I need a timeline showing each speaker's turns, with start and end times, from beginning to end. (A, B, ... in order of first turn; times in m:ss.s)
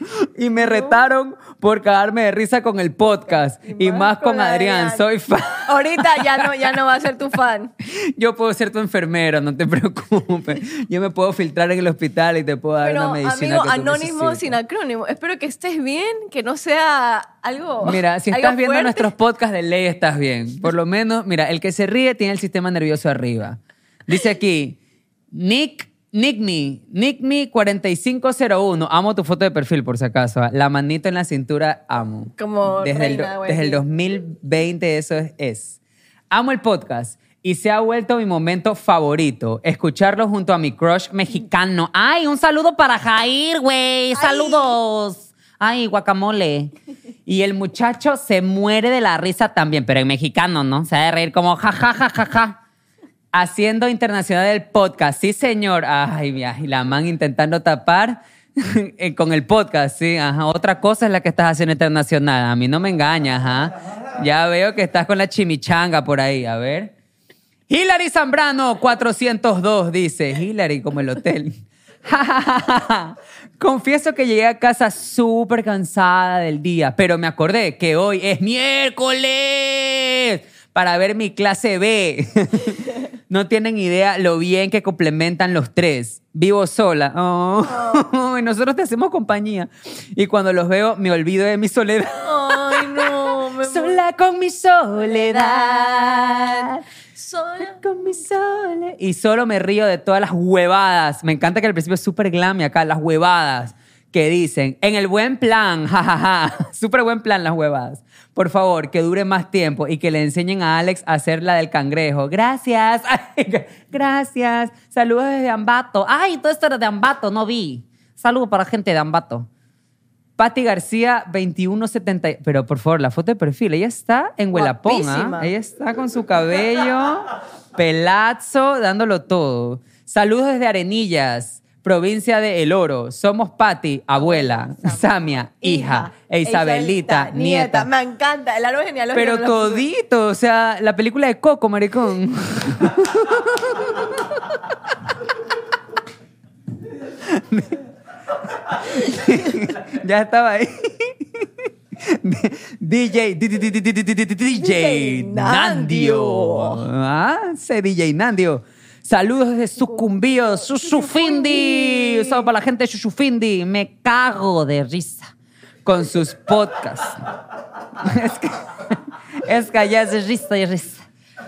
0:00.2-0:06.7 A
0:00.6-0:01.1 B
0:03.6-0:05.0 B
0:05.7-0:07.7 B
0:07.9-0:14.6 A
0:12.8-0:19.1 B
0:17.8-0:24.8 A
0:25.3-0:35.8 A
0:32.4-0:33.8 B
0:36.3-0:46.7 A
0:44.2-0:44.7 B
0:47.3-0:52.6 A
0:53.3-1:06.9 A
1:07.7-1:11.5 A
1:12.1-1:36.8 A
1:27.7-1:28.0 B
1:32.2-1:34.0 B
1:35.0-1:37.8 B
1:37.8-1:59.5 A
2:00.4-2:17.9 A
2:04.5-2:05.5 B
2:14.2-2:19.8 B
2:19.2-2:24.4 A
2:27.2-2:27.8 A
2:28.7-2:45.3 A
2:34.6-2:36.8 B
2:40.7-2:42.4 B
2:45.8-2:47.2 A
2:48.0-2:51.0 A